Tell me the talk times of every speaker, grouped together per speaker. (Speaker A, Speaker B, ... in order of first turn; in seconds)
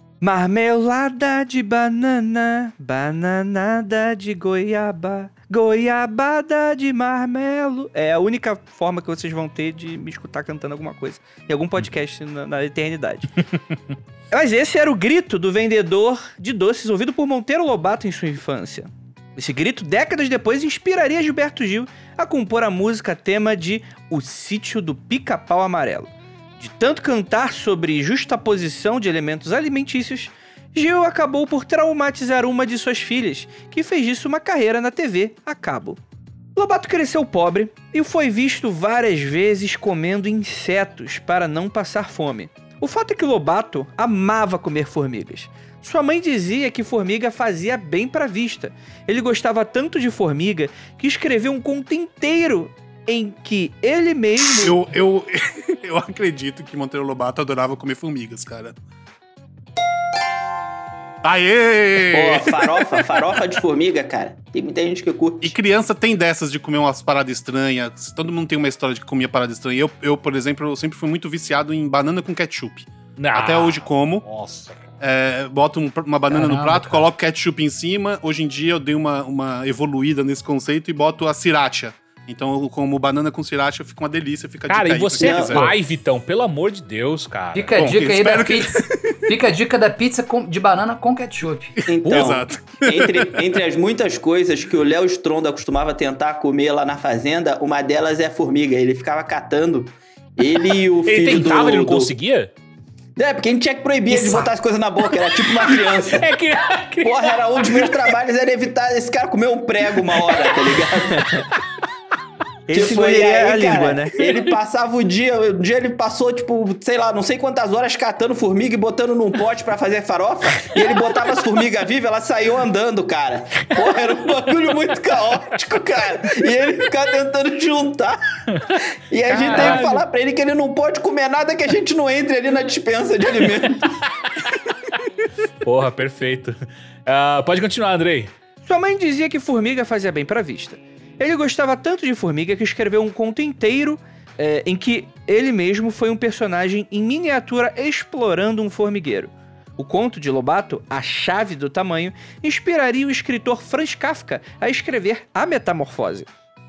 Speaker A: 0.2-13.3, 14.3-36.0, 36.6-54.8, 111.1-111.5, 112.7-114.3, 138.7-156.3
Speaker B: 54.6-58.8, 61.2-63.2, 65.4-74.2, 75.0-85.7, 87.8-89.3, 92.0-93.6
Speaker C: 62.1-65.5, 85.2-85.7, 91.9-102.1, 103.2-106.3, 107.0-111.4, 112.7-128.2, 129.1-134.0
Speaker D: 73.2-74.8, 84.7-87.7, 92.1-92.3, 101.0-102.5, 105.4-108.1, 110.1-110.7, 128.5-128.8, 135.6-138.3
Speaker E: 76.3-77.1, 87.5-91.9, 104.1-104.5, 129.3-130.0